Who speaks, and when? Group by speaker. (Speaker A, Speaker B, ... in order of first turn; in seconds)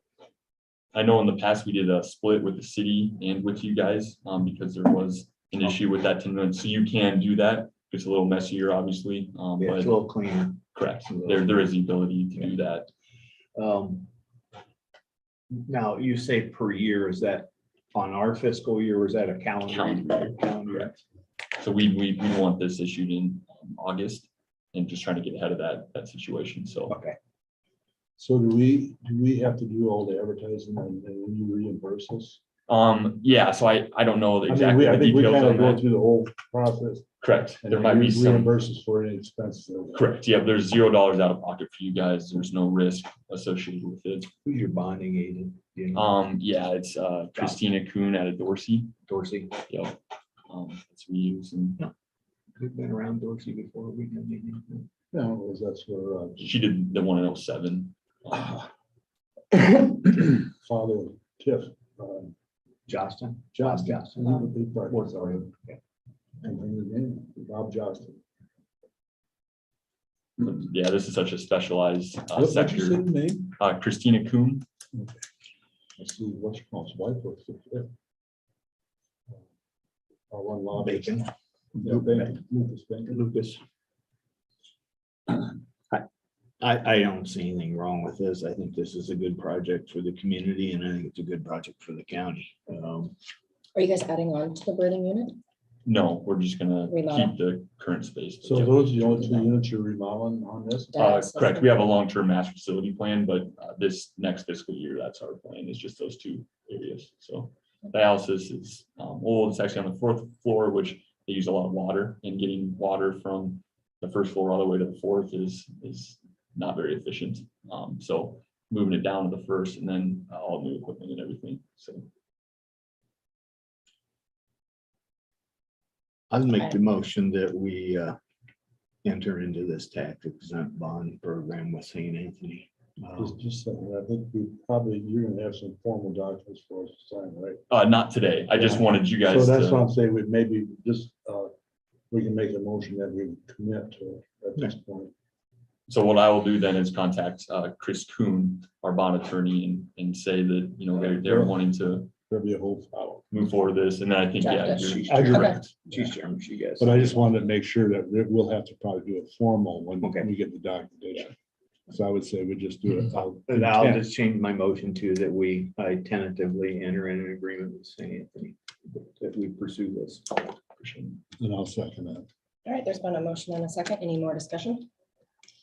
Speaker A: 0.9-10.0, 10.7-12.9, 19.7-20.9, 21.6-27.0, 32.7-35.8, 37.2-38.5, 39.9-44.3, 45.9-48.9, 49.7-51.8, 56.4-58.6, 70.4-74.7, 95.8-99.5, 101.0-122.1, 137.7-139.9, 145.9-152.1, 153.3-155.7, 170.8-171.2
Speaker B: 9.6-11.7, 13.6-14.1, 15.7-21.0, 26.9-27.2, 44.5-46.0, 49.1-49.5, 52.6-54.9, 62.9-64.3, 64.9-65.8, 80.8-82.3, 83.1-83.6, 85.3-86.1, 86.6-93.1, 126.3-128.2, 129.0-133.3, 154.7-157.2, 160.0-160.3, 163.5-170.5
Speaker C: 28.2-32.4, 34.5-37.1, 37.6-40.1, 55.1-56.5, 58.3-58.6, 59.5-62.3, 63.5-65.5, 66.4-68.2, 72.3-73.5, 76.0-77.9, 80.3-81.3, 81.8-83.2, 98.4-101.0, 133.2-137.6, 138.5-141.5, 142.1-145.1, 151.1-151.7, 152.3-153.2, 155.1-156.1, 156.8-161.3, 161.9-164.1, 171.4-172.3
Speaker D: 93.8-95.4, 96.9-97.3, 100.9-101.8, 154.4-155.6, 172.7-174.9